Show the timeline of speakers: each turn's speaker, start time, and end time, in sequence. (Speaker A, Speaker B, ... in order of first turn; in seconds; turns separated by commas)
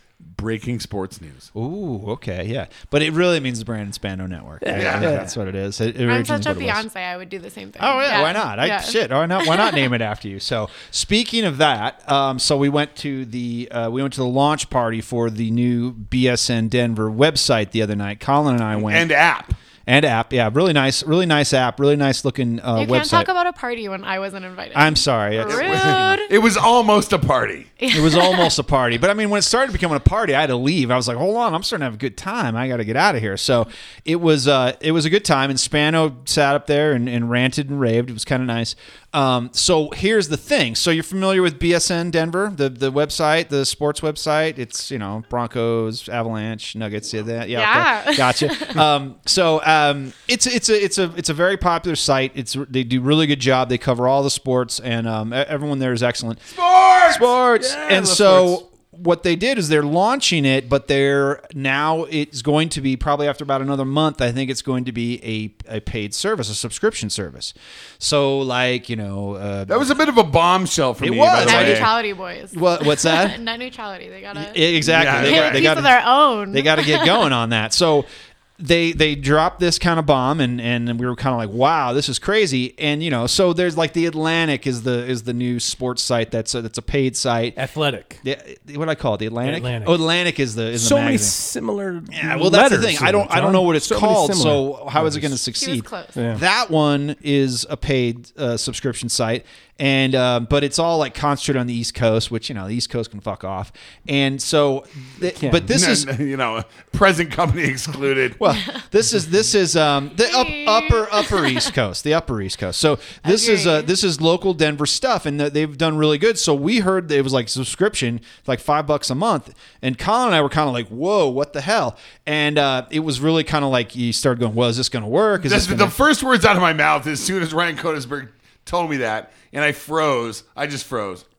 Speaker A: 0.2-1.5, Speaker B: 1.5-6.8, Speaker C: 4.6-5.3, Speaker A: 4.7-5.1, Speaker D: 6.0-9.8, Speaker B: 7.8-19.1, Speaker A: 18.7-19.6, Speaker B: 19.9-23.3, Speaker D: 22.8-26.3, Speaker B: 24.7-26.2, Speaker A: 25.4-27.7, Speaker D: 27.8-28.5, Speaker B: 27.9-56.5, Speaker D: 47.5-48.8, Speaker A: 56.5-57.3, Speaker B: 57.1-70.0, Speaker C: 57.5-58.6, Speaker A: 69.7-71.9, Speaker B: 71.0-71.9, Speaker D: 71.4-77.3, Speaker B: 72.5-73.4, Speaker B: 74.3-87.6, Speaker A: 74.9-75.7, Speaker C: 87.5-88.2, Speaker B: 88.2-91.3, Speaker C: 89.4-90.0, Speaker C: 90.7-95.3, Speaker B: 92.1-106.1, Speaker D: 95.6-96.2, Speaker C: 96.2-96.4, Speaker C: 105.4-105.7, Speaker A: 105.7-108.4, Speaker B: 108.4-126.0, Speaker D: 110.2-111.7, Speaker D: 113.2-113.9, Speaker A: 125.4-131.3